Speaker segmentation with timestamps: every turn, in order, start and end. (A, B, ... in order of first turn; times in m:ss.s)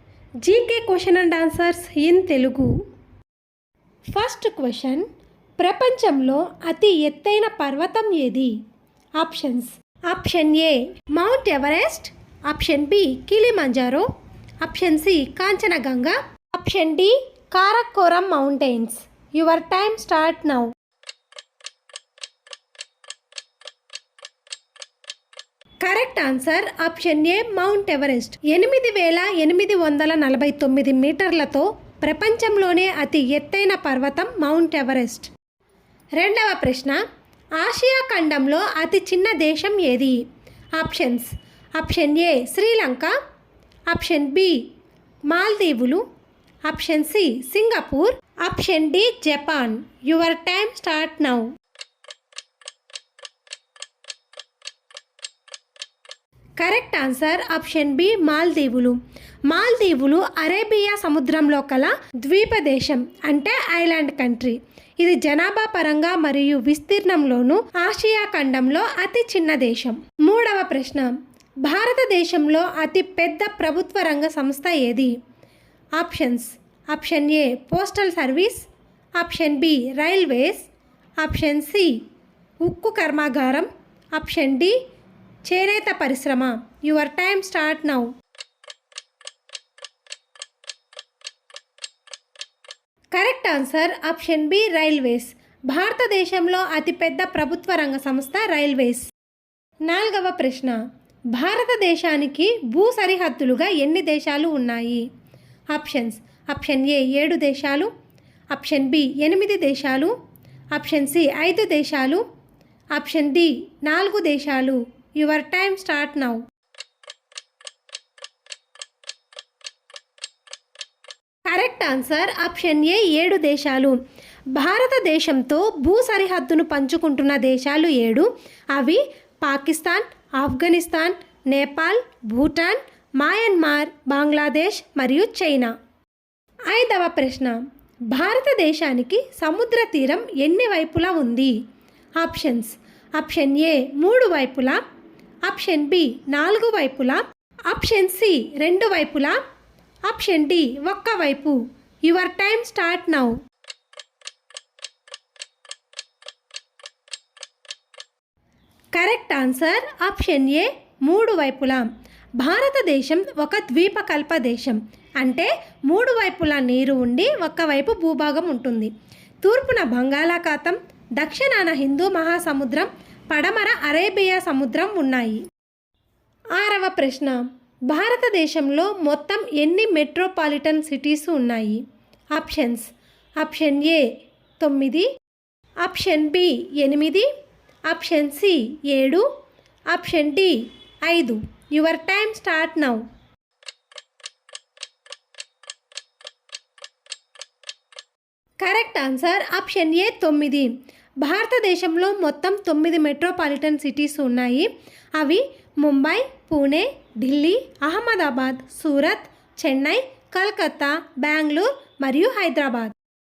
0:00.4-0:02.7 A
0:04.1-0:05.0 A
0:05.6-0:08.5 A
0:09.2-0:14.1 A
0:14.6-0:20.7 A
0:25.8-0:35.3 A
0:36.2-0:37.0 A
0:37.6-0:40.2 A
0:40.8-0:43.1 A
0:43.9-0:44.7 A
0:45.3-0:46.0 A
0:46.6-0:51.5 A
0:56.6-1:15.1 A
1:16.0-1:18.6 A
1:19.2-1:20.7 A
1:21.2-1:22.0 A
1:22.6-1:24.8 A
1:25.4-1:28.1 A
1:33.1-1:39.0 A
1:39.8-1:40.8 A
1:41.3-1:45.0 A
1:45.7-1:47.9 A
1:48.5-1:50.1 A
1:50.7-1:52.2 A
1:52.9-1:56.4 A
2:01.4-2:04.0 A
2:04.5-2:15.7 A
2:16.7-2:17.6 A
2:18.1-2:21.5 A
2:22.2-2:24.8 A
2:25.4-2:29.4 A
2:30.1-2:33.4 A
2:38.9-2:41.8 A
2:42.4-2:48.9 A
2:49.4-2:55.4 A
2:56.6-3:01.8 A
3:02.4-3:02.9 A
3:03.4-3:04.0 A
3:04.6-3:05.1 A
3:05.8-3:07.3 A
3:07.9-3:09.2 A
3:09.9-3:13.0 A
3:18.6-3:32.9 A